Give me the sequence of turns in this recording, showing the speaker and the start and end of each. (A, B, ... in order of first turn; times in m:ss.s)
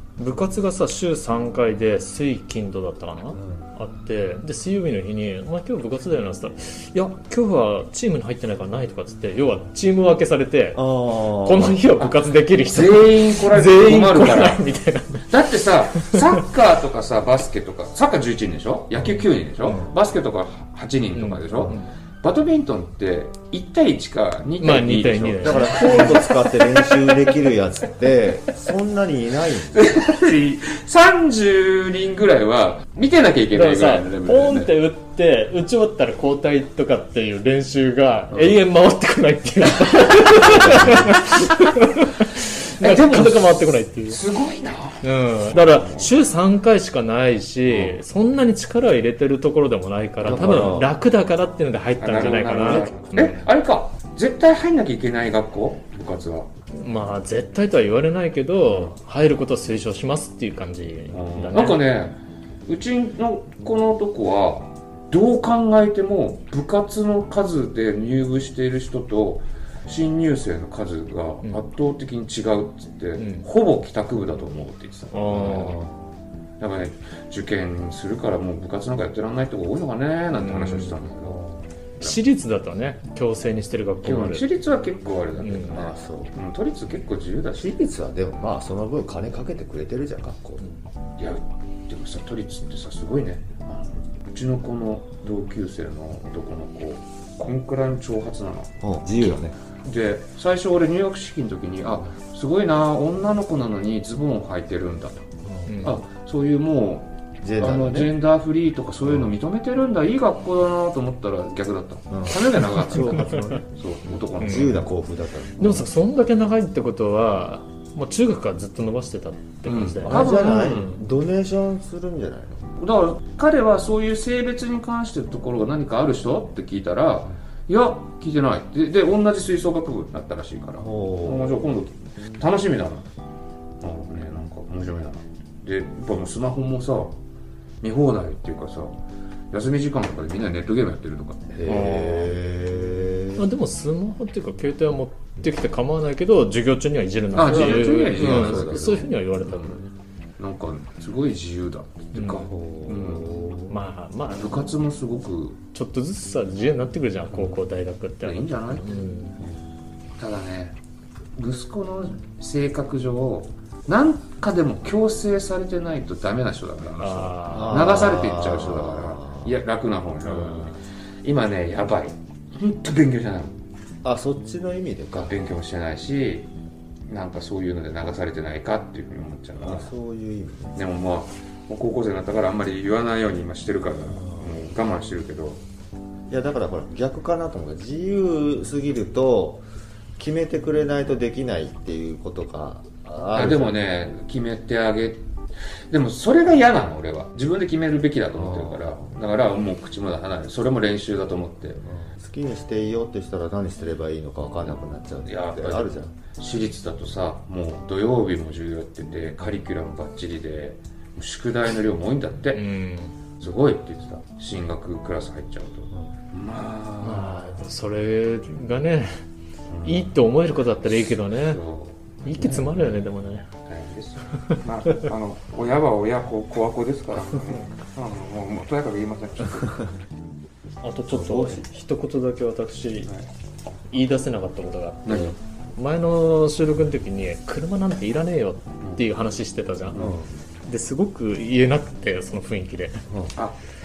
0:00.2-0:16.4 A
0:03.4-0:03.7 B
0:10.8-0:11.9 B
0:12.0-0:14.6 C
0:15.3-0:27.4 C
0:19.6-0:19.9 B
0:21.1-0:21.9 A
0:21.5-0:21.8 B
0:24.6-0:26.2 A
0:25.4-0:29.8 B
0:29.6-0:34.7 C
0:33.5-0:44.2 A
0:38.3-0:38.6 C
0:40.4-0:41.4 B
0:42.8-0:46.1 C
0:45.0-0:53.4 A
0:47.7-0:48.0 C
0:50.2-0:50.9 B
0:52.0-0:56.5 C
0:56.8-1:01.8 A
0:58.6-0:59.0 C
1:01.1-1:15.8 C
1:13.2-1:13.5 A
1:15.1-1:15.9 A
1:16.6-1:22.2 C
1:20.3-1:21.1 A
1:22.0-1:24.5 A
1:24.0-1:27.8 C
1:25.4-1:25.9 A
1:25.7-1:26.3 B
1:27.6-1:30.6 B
1:31.2-1:38.7 C
1:38.8-1:39.5 B
1:39.8-1:45.3 C
1:45.4-1:45.9 B
1:45.7-1:46.0 A
1:45.8-1:54.9 C
1:47.4-1:48.2 B
1:49.0-1:49.3 B
1:52.1-1:53.7 B
1:54.4-1:55.9 B
1:54.4-1:54.7 A
1:55.6-2:01.0 A
1:59.6-2:00.9 C
2:00.0-2:02.7 B
2:02.8-2:13.1 C
2:10.8-2:11.7 B
2:13.8-2:17.2 C
2:17.8-2:19.0 C
2:19.5-2:22.0 C
2:21.5-2:23.5 B
2:21.7-2:22.3 A
2:23.4-2:29.9 A
2:27.3-2:29.8 C
2:27.4-2:29.1 B
2:30.4-2:33.3 C
2:32.2-2:32.5 A
2:32.3-2:33.8 B
2:33.7-2:34.7 A
2:34.4-2:35.6 C
2:35.7-2:39.4 A
2:37.3-2:37.6 C
2:38.2-2:39.0 C
2:40.2-2:40.8 C
2:41.4-2:53.6 C
2:47.0-2:47.9 A
2:47.5-2:49.6 B
2:50.3-2:50.8 B
2:54.0-2:55.4 B
2:55.2-2:56.5 C
2:57.1-2:59.9 C
2:59.6-3:00.8 B
3:00.8-3:05.6 C
3:04.1-3:04.5 B
3:06.3-3:09.6 B
3:10.2-3:13.8 B
3:13.3-3:15.2 C
3:15.9-3:21.8 C
3:18.4-3:19.1 B
3:21.9-3:26.1 B
3:25.2-3:32.6 C
3:32.5-3:33.1 A
3:33.4-3:37.6 C
3:37.0-3:39.2 A
3:39.7-3:40.2 C
3:39.8-3:41.6 A
3:40.8-3:43.1 C
3:42.2-3:43.5 A
3:43.7-3:50.0 C
3:50.8-3:53.1 A
3:51.1-3:51.7 B
3:53.9-4:00.1 A
3:55.0-3:55.4 C
3:59.9-4:00.3 B
4:00.7-4:03.0 A